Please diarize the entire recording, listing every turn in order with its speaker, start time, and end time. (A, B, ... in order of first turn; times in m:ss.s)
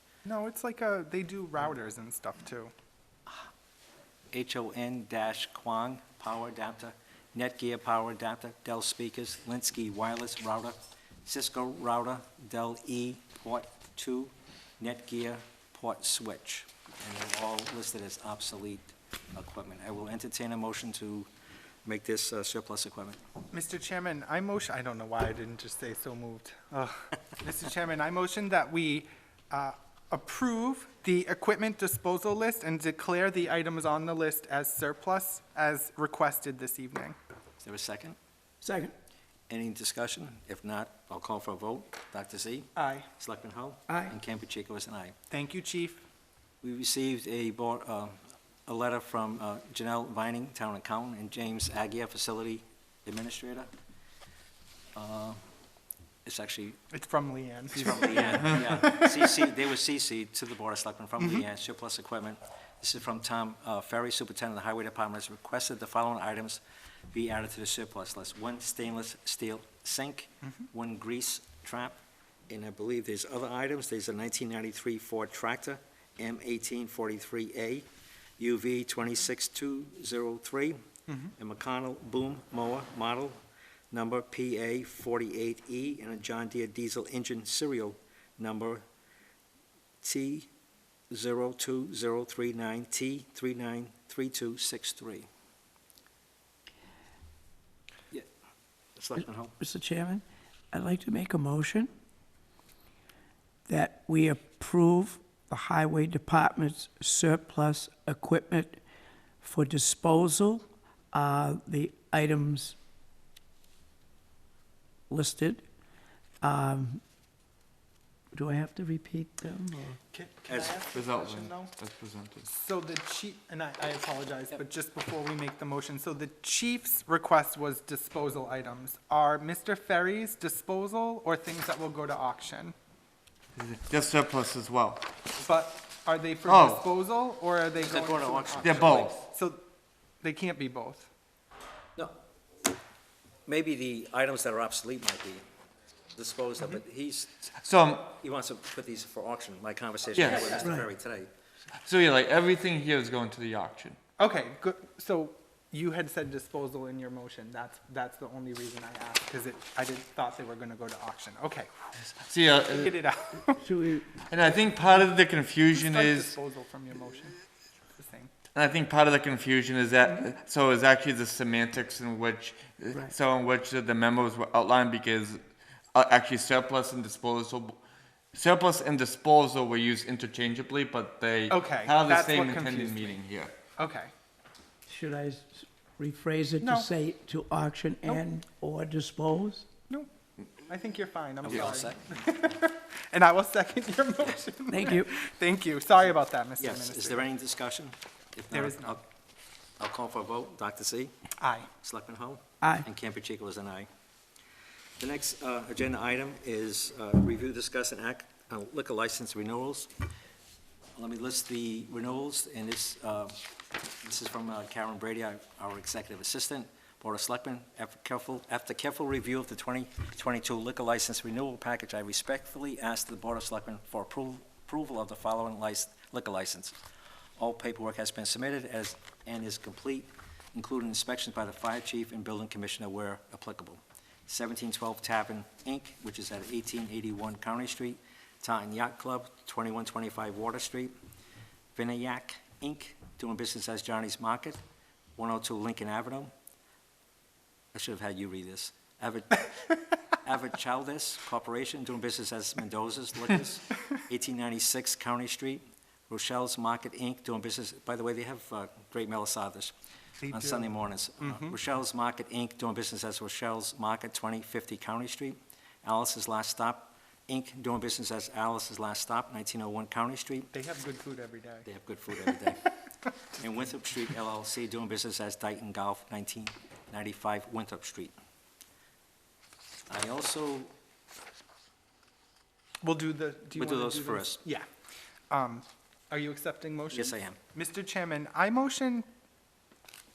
0:00.2-0:02.7 A
0:04.3-0:21.3 B
0:21.8-0:23.2 B
0:23.5-0:37.2 A
0:37.6-0:38.2 B
0:38.6-0:38.9 C
0:39.5-0:45.2 B
0:42.8-0:43.1 A
0:43.9-0:44.1 C
0:45.3-0:46.0 A
0:46.6-0:53.7 B
0:54.9-0:55.4 B
0:56.2-0:56.8 B
0:56.9-0:58.6 A
0:57.7-1:06.6 B
1:07.1-1:12.0 B
1:12.5-1:17.9 B
1:18.4-1:20.8 B
1:21.4-1:23.4 B
1:23.9-1:28.8 B
1:30.0-1:30.5 B
1:31.1-1:35.3 B
1:39.0-1:39.6 B
1:39.6-1:41.9 C
1:43.7-1:48.8 C
1:49.4-1:52.8 C
1:55.1-1:55.6 C
1:56.4-1:57.0 C
1:58.3-2:00.0 C
2:00.1-2:01.7 A
2:00.5-2:00.8 B
2:00.9-2:02.5 D
2:02.5-2:12.7 A
2:13.6-2:15.1 D
2:15.4-2:19.6 A
2:16.4-2:16.8 D
2:17.8-2:19.2 B
2:18.6-2:19.1 D
2:20.2-2:21.1 A
2:23.4-2:25.4 B
2:26.2-2:27.6 B
2:27.6-2:28.1 D
2:28.2-2:31.3 B
2:30.2-2:30.6 D
2:31.8-2:34.0 D
2:34.2-2:41.9 A
2:42.1-2:43.0 D
2:42.7-2:43.6 A
2:43.6-2:44.1 C
2:44.2-2:46.3 D
2:45.7-2:47.4 A
2:48.0-2:48.3 A
2:48.5-2:57.8 D
2:58.3-3:03.5 D
3:01.5-3:03.1 A
3:03.8-3:04.1 A
3:04.9-3:09.7 C
3:06.6-3:06.9 A
3:10.6-3:17.2 A
3:11.4-3:12.5 B
3:14.7-3:15.2 C
3:16.6-3:19.0 B
3:18.5-3:19.0 A
3:19.8-3:21.1 B
3:21.4-3:21.7 A
3:21.8-3:23.9 B
3:25.0-3:29.9 B
3:31.0-3:33.4 B
3:34.0-3:46.8 B
3:47.4-4:00.9 B
4:01.7-4:04.6 B
4:05.2-4:06.3 B
4:07.7-4:19.7 B
4:20.2-4:20.7 A
4:20.3-4:30.5 B
4:21.2-4:21.5 A
4:30.5-4:31.6 A
4:31.6-4:32.8 B
4:33.3-4:38.1 B
4:39.9-4:40.7 B
4:42.8-4:44.7 A
4:43.5-4:44.4 B
4:45.3-4:49.1 A
4:46.9-4:47.4 B